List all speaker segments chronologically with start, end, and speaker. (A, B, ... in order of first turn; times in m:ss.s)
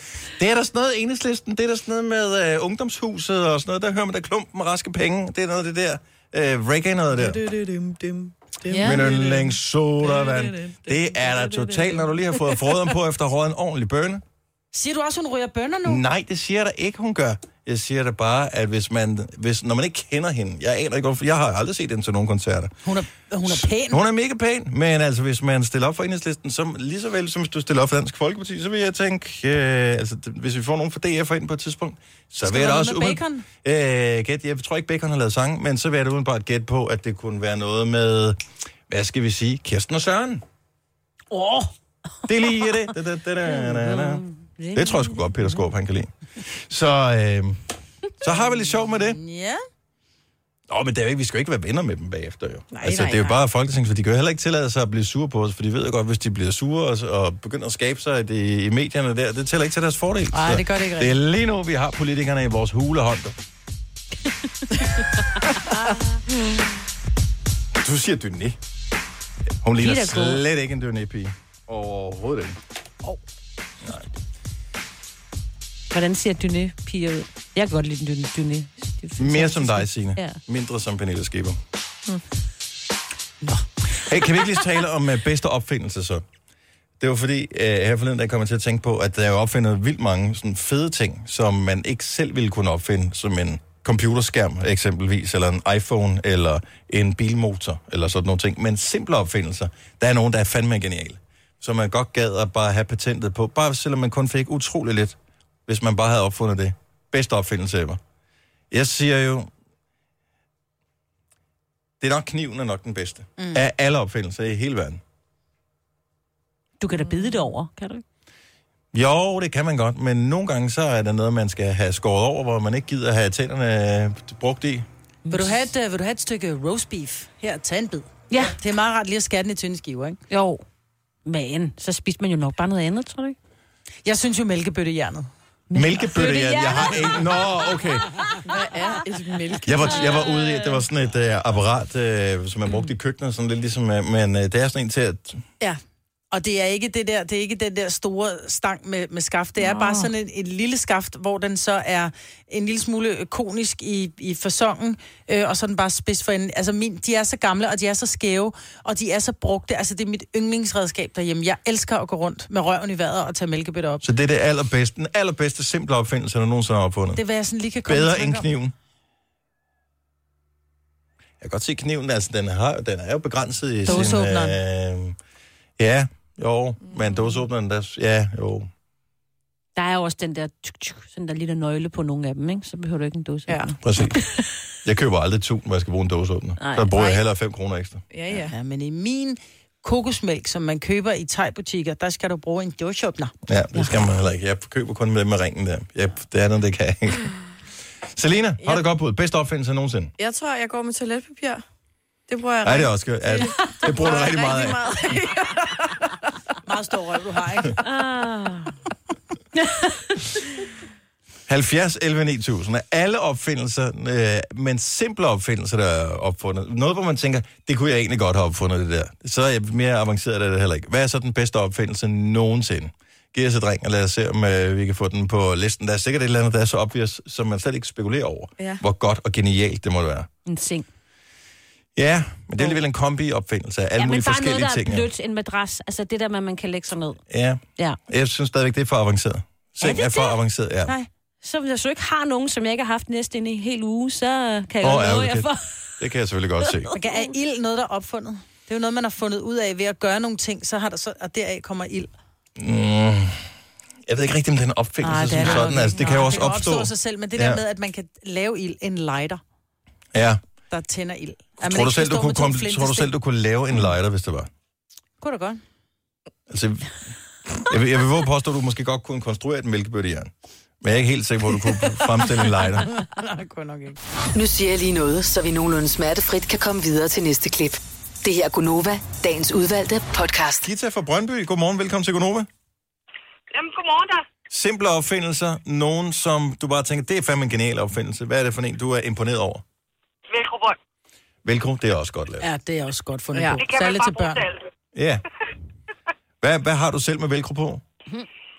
0:00.3-0:07.4 A
0:07.5-0:08.9 B
0:08.7-0:09.3 C
0:08.7-0:14.2 A
0:14.7-0:16.0 C
0:15.8-0:22.7 A
0:22.8-0:24.0 C
0:23.4-0:40.4 A
0:32.4-0:33.4 C
0:41.3-0:41.7 C
0:42.3-0:44.2 A
0:43.4-0:45.6 D
0:44.7-0:47.6 A
0:48.2-0:49.2 A
0:49.0-0:49.6 C
0:50.7-1:03.4 A
0:52.7-0:53.3 B
1:00.3-1:01.1 C
1:05.6-1:06.0 D
1:07.7-1:08.6 A
1:09.6-1:12.6 A
1:09.8-1:10.4 D
1:15.9-1:20.4 D
1:19.2-1:21.6 A
1:24.0-1:26.2 A
1:27.0-1:48.0 A
1:48.7-1:49.5 A
1:52.0-1:55.0 A
1:56.8-1:58.0 D
1:58.9-2:04.9 A
2:05.2-2:05.5 D
2:05.3-2:10.2 C
2:08.3-2:08.6 D
2:10.3-2:10.6 D
2:11.2-2:13.4 D
2:14.0-2:15.3 C
2:15.7-2:17.4 D
2:15.7-2:18.1 A
2:18.4-2:20.1 B
2:19.6-2:25.4 A
2:26.3-2:44.0 C
2:29.6-2:30.1 D
2:44.0-2:47.2 A
2:47.2-2:48.5 C
2:47.9-2:48.7 A
2:51.4-2:55.2 A
2:53.8-2:54.6 C
2:55.8-2:58.7 A
2:59.8-3:04.2 D
3:03.8-3:04.2 A
3:04.8-3:08.0 A
3:06.6-3:07.1 D
3:08.1-3:08.5 B
3:08.5-3:13.3 C
3:13.5-3:17.3 A
3:18.1-3:20.1 A
3:20.2-3:21.6 B
3:22.3-3:26.0 B
3:22.6-3:24.9 A
3:26.7-3:27.8 C
3:27.8-3:28.8 D
3:31.5-3:50.3 A
3:50.4-3:50.8 D
3:52.0-3:55.1 A
3:54.0-3:57.2 D
3:57.3-4:00.9 A
3:59.8-4:00.2 D
4:01.4-4:06.0 D
4:04.8-4:06.9 A
4:06.8-4:07.2 D
4:06.9-4:12.1 C
4:12.6-4:13.4 A
4:14.1-4:17.6 A
4:15.0-4:16.3 D
4:15.2-4:19.4 C
4:20.1-4:20.4 A
4:20.7-4:23.1 C
4:21.6-4:24.5 A
4:25.2-4:25.6 C
4:26.5-4:33.0 A
4:33.0-4:34.0 C
4:34.3-4:40.6 E
4:40.6-4:42.5 A
4:43.5-4:44.2 F
4:44.5-4:49.6 A
4:50.3-4:50.8 F
4:51.4-4:52.5 A
4:52.4-4:54.4 C
4:53.3-4:53.6 B
4:53.5-4:54.6 F
4:54.9-4:55.2 A
4:56.4-4:57.8 A